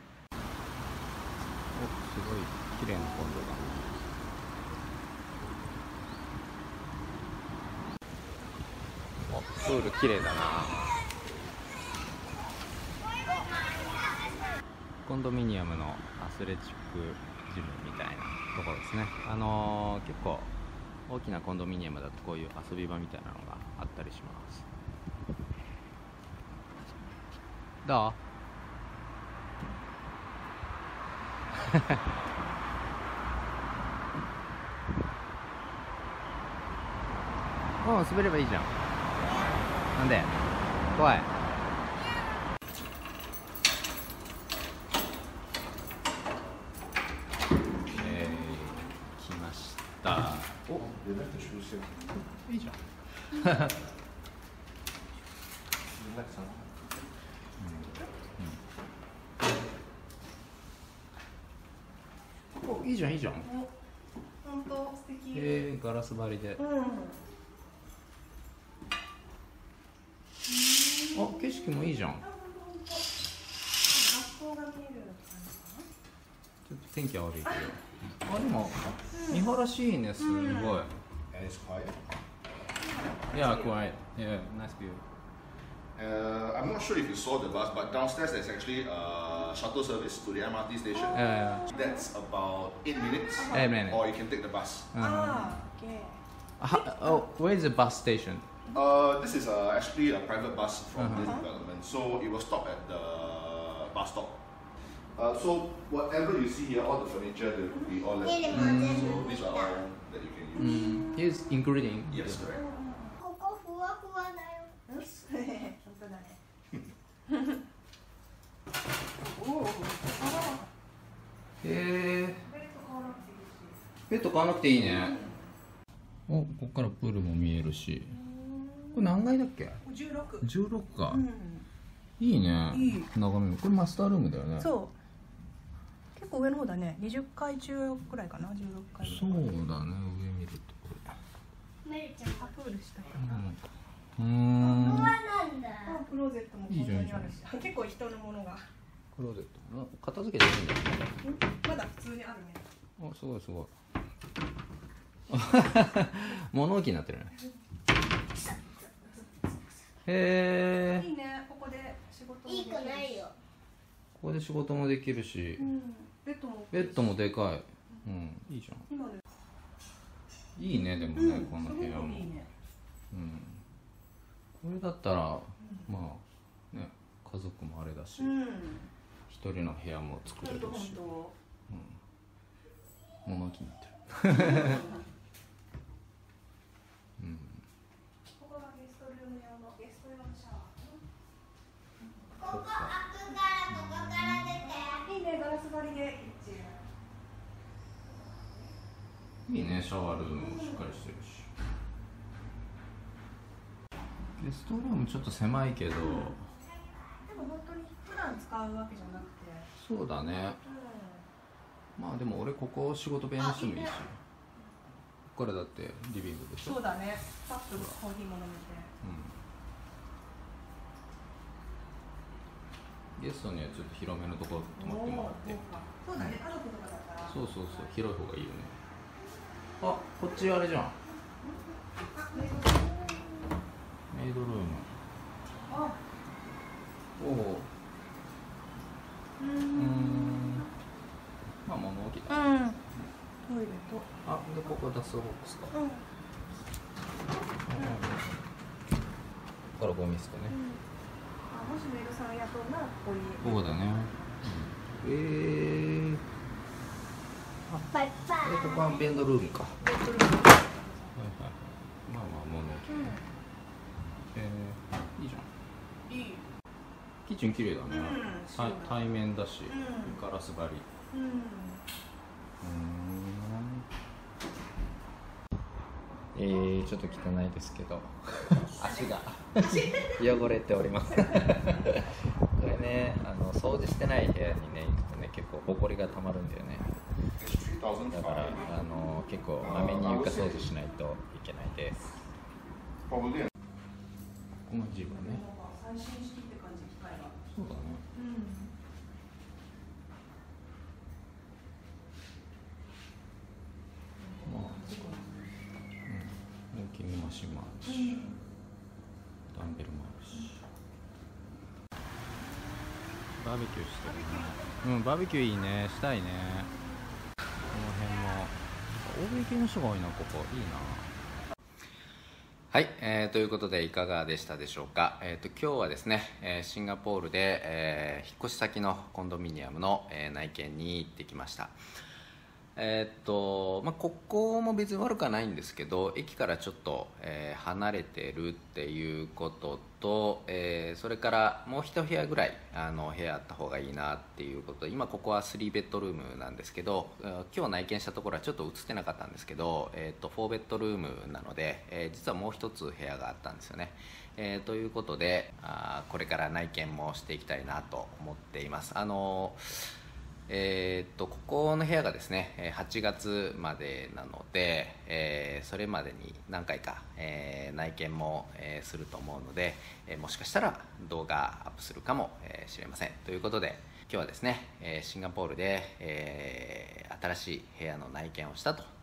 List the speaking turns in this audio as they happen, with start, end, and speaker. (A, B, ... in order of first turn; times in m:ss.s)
0:01.7-0:03.9 A
0:09.3-0:11.0 A
0:15.0-0:20.5 A
0:21.1-0:24.6 A
0:27.8-0:28.2 A
0:37.8-0:38.7 A
0:39.9-0:40.3 A
0:40.9-0:41.3 A
0:47.9-0:50.9 A
0:50.9-0:51.9 B
0:52.3-0:53.7 A
0:56.0-0:56.6 B
0:57.6-0:58.6 A
1:02.6-1:03.5 A
1:03.4-1:03.7 C
1:04.4-1:05.5 C
1:05.3-1:06.6 A
1:06.6-1:07.2 C
1:10.5-1:11.1 C
1:11.0-1:12.2 A
1:12.2-1:13.0 C
1:13.8-1:15.9 C
1:16.6-1:21.0 A
1:21.3-1:22.0 B
1:23.3-1:25.0 A
1:26.0-1:34.9 B
1:31.1-1:31.7 A
1:33.4-1:34.1 A
1:34.9-1:35.6 A
1:35.0-1:36.2 C
1:36.6-1:38.5 A
1:38.7-1:50.9 B
1:41.0-1:41.3 A
1:48.2-1:49.8 D
1:48.5-1:49.3 A
1:50.6-1:52.5 A
1:52.1-1:52.7 B
1:52.6-1:53.1 C
1:53.2-1:54.7 D
1:54.9-1:56.4 C
1:59.3-2:00.7 C
2:01.6-2:02.4 A
2:02.4-2:03.8 C
2:04.1-2:05.2 A
2:05.0-2:05.4 C
2:06.3-2:08.2 A
2:08.2-2:08.9 C
2:08.9-2:09.8 A
2:09.8-2:10.4 C
2:10.4-2:11.3 A
2:11.1-2:11.6 C
2:12.2-2:14.7 A
2:12.7-2:13.1 C
2:14.6-2:14.9 C
2:16.1-2:19.4 C
2:19.0-2:21.1 A
2:21.8-2:22.6 D
2:22.4-2:23.2 C
2:23.2-2:23.6 A
2:24.2-2:25.2 A
2:24.6-2:26.0 D
2:25.8-2:28.6 C
2:26.7-2:27.4 A
2:29.1-2:31.2 A
2:31.2-2:32.6 C
2:33.0-2:33.7 A
2:35.3-2:37.3 A
2:40.0-2:41.1 A
2:40.9-2:43.2 C
2:42.4-2:43.3 D
2:44.2-2:45.7 A
2:45.6-2:47.0 C
2:46.7-2:48.8 A
2:48.9-2:49.2 C
2:50.6-2:52.3 A
2:51.2-2:52.5 C
2:53.1-2:53.6 A
2:54.6-2:58.4 A
2:58.2-2:58.9 C
2:59.3-3:01.1 A
3:00.4-3:01.3 C
3:01.7-3:02.0 A
3:03.2-3:04.9 A
3:07.2-3:07.6 A
3:08.4-3:11.0 C
3:12.4-3:13.0 A
3:12.4-3:15.2 D
3:13.7-3:14.5 A
3:14.9-3:16.8 C
3:18.1-3:18.7 C
3:19.4-3:21.5 A
3:24.4-3:26.5 A
3:27.3-3:29.7 C
3:29.8-3:30.6 A
3:30.6-3:31.2 C
3:32.0-3:34.2 A
3:33.4-3:33.8 D
3:35.3-3:36.9 A
3:36.6-3:38.9 C
3:37.7-3:38.0 A
3:39.0-3:39.3 A
3:43.2-3:45.6 A
3:44.8-3:47.3 C
3:46.1-3:46.4 A
3:47.2-3:48.7 A
3:49.8-3:51.0 A
3:52.2-3:53.4 C
3:54.1-3:54.9 A
3:55.7-3:56.0 C
3:57.2-3:57.7 A
3:59.4-4:00.6 C
3:59.6-4:00.7 A
4:01.6-4:03.0 A
4:02.3-4:02.8 C
4:03.4-4:04.1 C
4:04.2-4:05.7 A
4:05.7-4:06.0 C
4:07.7-4:08.4 A
4:09.8-4:10.6 A
4:10.5-4:10.8 C
4:11.5-4:14.4 C
4:13.4-4:16.2 A
4:17.7-4:19.9 A
4:17.9-4:18.8 D
4:19.8-4:21.1 C
4:21.1-4:23.2 A
4:22.9-4:23.2 C
4:24.3-4:25.5 A
4:26.1-4:26.4 C
4:27.2-4:30.8 A
4:27.9-4:28.9 C
4:29.7-4:30.1 C
4:31.1-4:31.8 C
4:32.6-4:33.8 A
4:36.3-4:47.0 A
4:47.4-4:48.6 B
4:48.1-4:52.1 A
4:49.6-4:50.6 B
4:53.1-4:53.5 B
4:54.7-4:55.4 A
4:55.4-4:57.3 C
4:57.4-4:58.0 A
4:58.2-4:58.7 C
5:04.4-5:05.4 C
5:04.4-5:04.9 A
5:06.0-5:08.2 A
5:09.5-5:10.6 A
5:13.3-5:16.7 A
5:17.7-5:21.1 A
5:22.7-5:31.7 A
5:32.8-5:59.9 A
6:00.5-6:18.9 A